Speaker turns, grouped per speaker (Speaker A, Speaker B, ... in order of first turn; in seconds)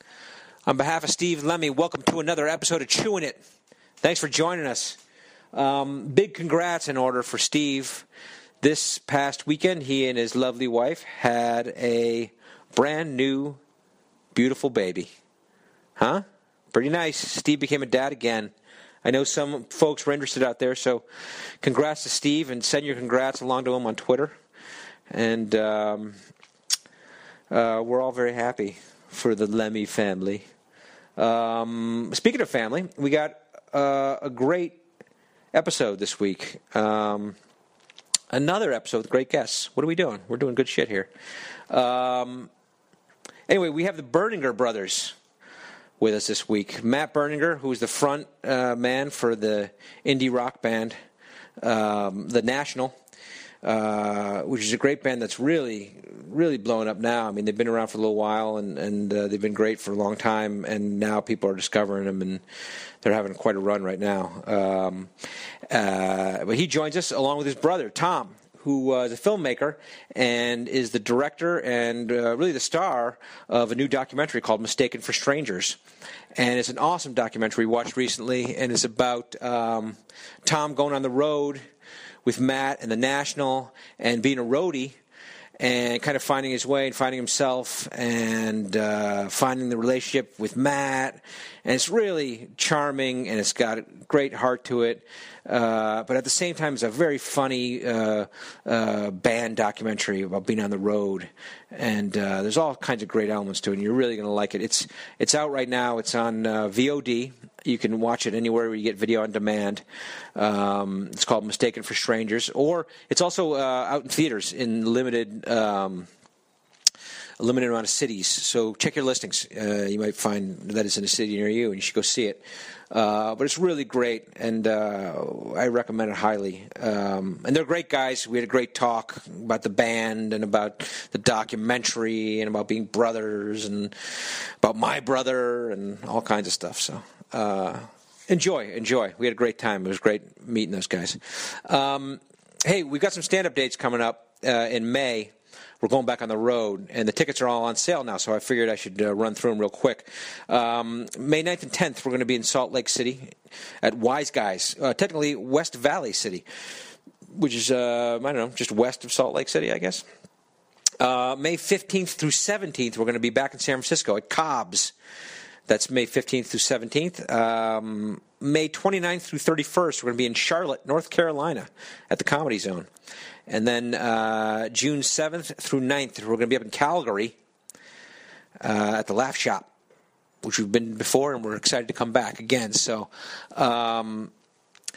Speaker A: 0.7-3.4, 4.0-5.0, 5.5-8.0, 8.6-13.6, 14.3-15.1, 16.0-18.5, 19.0-21.0, 21.6-24.4, 25.1-26.1, 27.5-30.4, 31.2-34.8, 35.5-37.4, 38.3-41.1, 41.7-42.5, 43.5-45.1, 46.0-51.0, 51.6-52.9, 53.6-62.4, 63.0-65.1, 65.7-75.8, 76.3-81.6, 82.2-85.0, 85.6-109.8, 110.3-116.1, 117.4-133.9, 134.6-156.4, 157.3-160.0, 161.0-164.9, 165.7-172.9, 173.5-177.3, 178.6-179.7, 180.4-184.3